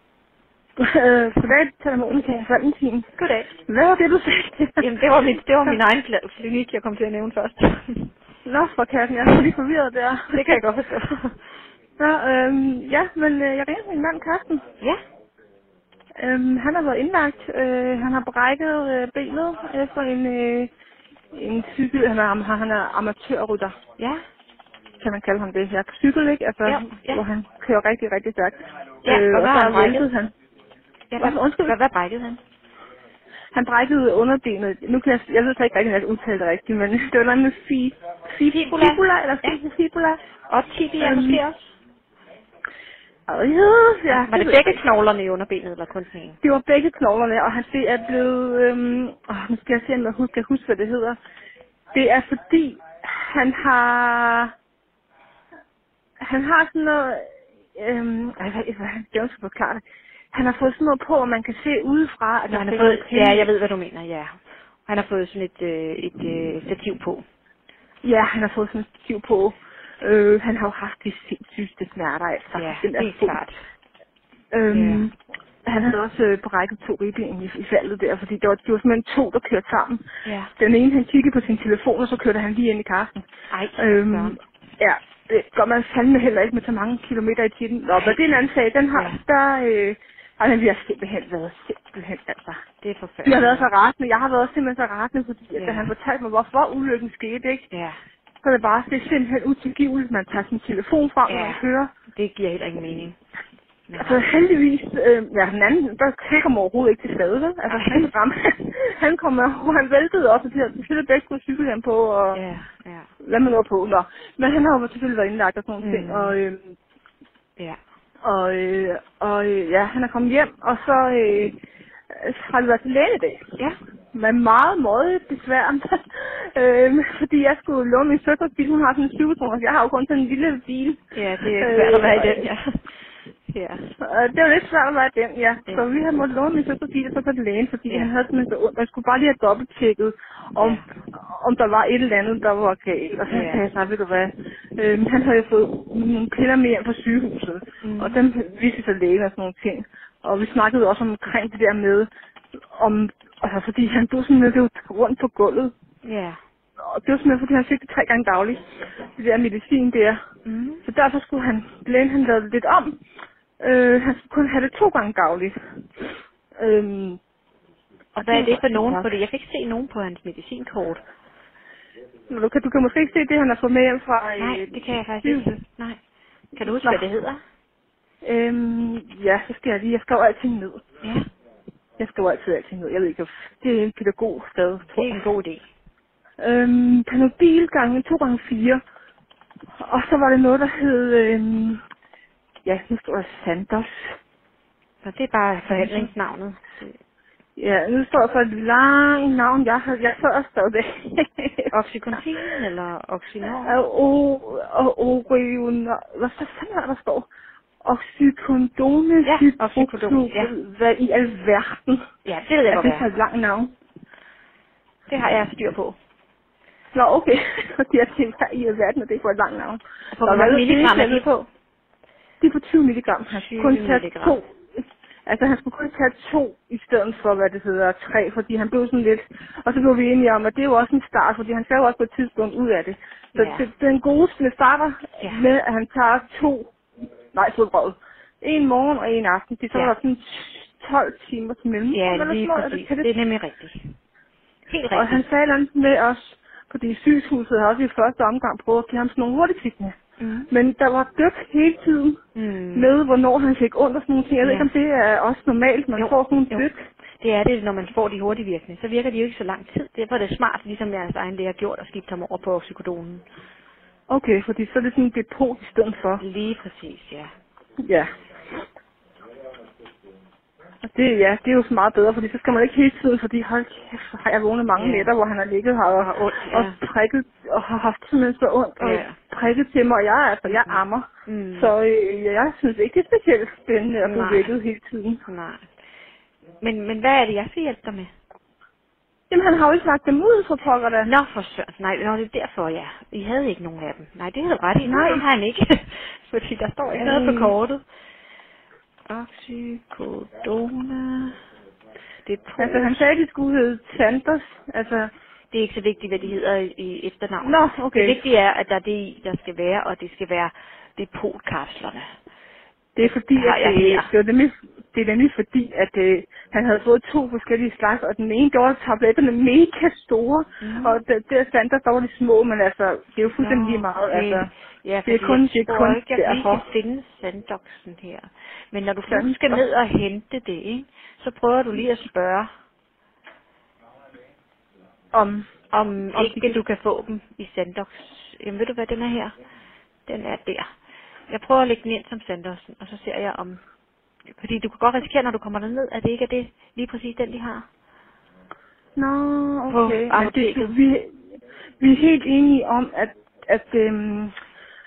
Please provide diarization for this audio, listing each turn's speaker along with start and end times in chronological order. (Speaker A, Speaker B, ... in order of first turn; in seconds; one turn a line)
Speaker A: 0.8-3.0
Speaker B: 3.2-3.5
Speaker A: 3.7-4.9
Speaker B: 4.8-8.1
Speaker A: 8.4-10.6
Speaker B: 10.3-11.4
Speaker A: 12.0-14.6
Speaker A: 16.2-20.7
Speaker A: 21.3-23.8
Speaker A: 25.0-30.3
Speaker B: 26.6-27.2
Speaker B: 29.0-30.1
Speaker B: 31.1-32.4
Speaker A: 31.2-31.8
Speaker A: 33.5-40.2
Speaker B: 38.5-39.6
Speaker B: 40.5-41.6
Speaker A: 41.0-41.4
Speaker A: 43.3-44.8
Speaker B: 44.1-46.4
Speaker A: 46.4-51.2
Speaker A: 51.9-54.5
Speaker A: 56.2-63.5
Speaker B: 62.5-64.3
Speaker B: 64.9-67.2
Speaker A: 68.0-73.4
Speaker B: 72.5-73.5
Speaker A: 74.5-75.1
Speaker B: 74.7-75.1
Speaker A: 75.7-80.0
Speaker B: 80.2-80.5
Speaker A: 80.6-83.2
Speaker B: 83.5-84.4
Speaker A: 83.8-92.6
Speaker B: 88.9-89.2
Speaker B: 92.8-93.7
Speaker A: 93.2-97.7
Speaker B: 95.5-95.9
Speaker B: 97.7-98.0
Speaker A: 98.4-101.9
Speaker B: 101.3-101.6
Speaker B: 102.1-103.2
Speaker B: 103.9-104.3
Speaker A: 104.0-112.4
Speaker B: 107.7-108.1
Speaker B: 112.3-113.1
Speaker A: 113.2-116.8
Speaker B: 115.8-116.4
Speaker A: 118.2-121.6
Speaker A: 122.1-123.4
Speaker A: 124.1-131.0
Speaker B: 131.1-132.8
Speaker A: 131.5-132.5
Speaker B: 133.5-133.8
Speaker A: 134.0-152.1
Speaker B: 140.6-140.9
Speaker B: 143.3-143.6
Speaker B: 147.8-148.2
Speaker A: 152.7-155.7
Speaker B: 156.0-156.4
Speaker A: 156.8-158.7
Speaker A: 159.2-160.2
Speaker B: 160.4-160.8
Speaker A: 160.8-163.0
Speaker A: 163.6-166.1
Speaker A: 166.6-167.2
Speaker A: 168.1-169.1
Speaker B: 168.2-171.0
Speaker A: 172.3-175.6
Speaker B: 174.4-176.0
Speaker B: 176.6-177.4
Speaker A: 176.6-177.0
Speaker A: 178.2-180.8
Speaker B: 181.0-181.3
Speaker A: 182.0-185.3
Speaker B: 184.9-185.7
Speaker A: 186.4-188.8
Speaker A: 189.8-191.8
Speaker A: 192.6-194.2
Speaker B: 195.0-196.9
Speaker A: 195.7-196.1
Speaker A: 197.6-201.7
Speaker B: 201.7-203.8
Speaker A: 203.5-207.3
Speaker A: 207.8-212.0
Speaker B: 209.2-210.5
Speaker B: 212.2-213.1
Speaker A: 212.7-213.7
Speaker B: 215.1-216.0
Speaker A: 216.9-221.2
Speaker B: 220.1-221.5
Speaker A: 222.4-224.6
Speaker B: 223.3-224.4
Speaker A: 225.2-236.7
Speaker B: 233.3-233.7
Speaker B: 235.2-235.4
Speaker A: 237.3-243.1
Speaker B: 241.9-243.9
Speaker B: 244.7-245.2
Speaker A: 244.9-249.9
Speaker B: 250.2-250.5
Speaker A: 250.5-252.2
Speaker B: 252.3-252.9
Speaker A: 252.7-256.8
Speaker B: 254.4-254.7
Speaker B: 256.0-256.7
Speaker B: 257.2-263.3
Speaker A: 264.1-266.2
Speaker B: 266.2-267.3
Speaker A: 267.8-268.1
Speaker A: 270.8-285.2
Speaker B: 274.8-275.1
Speaker B: 276.0-276.8
Speaker B: 278.8-279.2
Speaker B: 280.5-281.7
Speaker B: 284.0-284.5
Speaker B: 285.3-285.6
Speaker B: 286.6-288.1
Speaker A: 289.3-291.1
Speaker B: 291.0-297.8
Speaker A: 294.8-295.2
Speaker A: 296.9-297.6
Speaker B: 299.1-301.4
Speaker B: 302.2-303.0
Speaker A: 302.6-305.1
Speaker B: 305.5-312.1
Speaker A: 307.4-308.2
Speaker A: 312.9-324.5
Speaker B: 313.0-314.1
Speaker B: 320.6-320.9
Speaker B: 323.4-332.5
Speaker A: 325.1-326.6
Speaker A: 329.1-329.6
Speaker A: 335.1-335.5
Speaker B: 335.7-339.3
Speaker A: 336.1-336.6
Speaker B: 340.1-340.7
Speaker B: 341.3-343.6
Speaker B: 344.3-347.6
Speaker A: 348.9-351.1
Speaker B: 349.7-350.7
Speaker A: 351.8-354.3